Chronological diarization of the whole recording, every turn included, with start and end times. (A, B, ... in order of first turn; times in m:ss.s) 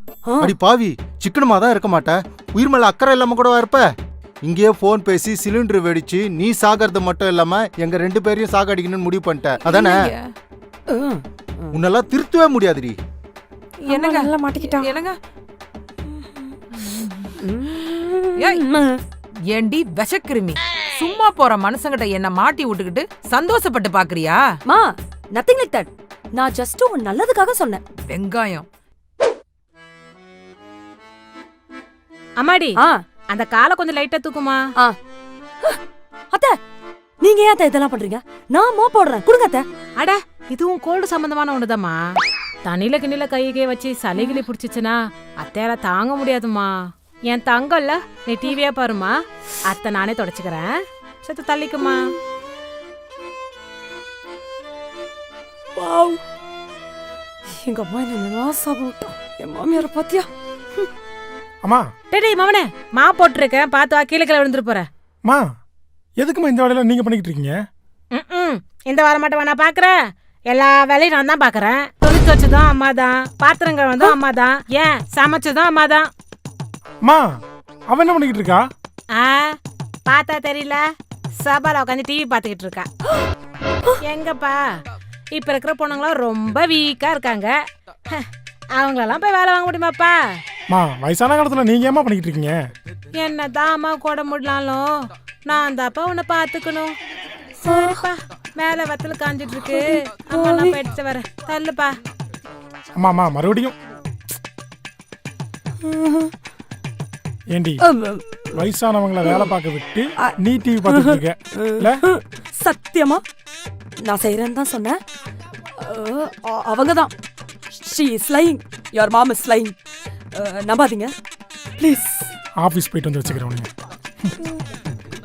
0:00.2-0:00.6 A
0:00.4-0:10.1 B
0:09.6-0:10.3 C
0:10.9-0:11.8 A
0:11.7-0:13.0 B
0:13.8-0:15.2 C
0:13.8-0:14.9 A
0:16.8-0:17.3 C
0:17.4-0:19.0 A
0:18.4-0:18.7 C
0:19.5-0:24.4 C
0:24.6-0:27.8 A
0:28.1-0:28.6 C
0:32.4-0:32.8 D
0:32.8-0:33.0 A
0:33.3-0:34.6 D
0:37.2-0:39.6 A
0:40.0-0:42.0 D
0:42.6-0:46.8 D
0:44.2-0:44.4 A
0:47.3-0:52.0 D
0:55.7-0:56.2 A
0:57.5-1:00.9 A
1:02.1-1:04.8 D
1:06.2-1:07.6 E
1:08.1-1:09.9 D
1:10.5-1:16.1 D
1:17.9-1:18.6 E
1:19.1-1:19.6 D
1:20.1-1:20.8 D
1:21.4-1:22.9 D
1:24.0-1:24.6 D
1:25.3-1:27.6 D
1:28.8-1:30.2 D
1:30.7-1:32.6 E
1:33.1-1:34.9 D
1:35.4-1:36.9 D
1:37.6-1:38.0 A
1:37.6-1:41.9 D
1:39.7-1:40.8 A
1:43.0-1:43.7 E
1:45.8-1:46.3 A
1:47.5-1:47.8 E
1:47.8-1:48.6 A
1:48.5-1:52.0 E
1:49.2-1:49.5 A
1:50.8-1:53.2 A
1:54.0-1:55.0 A
1:55.8-1:57.1 A
1:57.8-1:59.7 A
2:00.3-2:01.1 A
2:01.8-2:02.3 A
2:02.6-2:03.7 E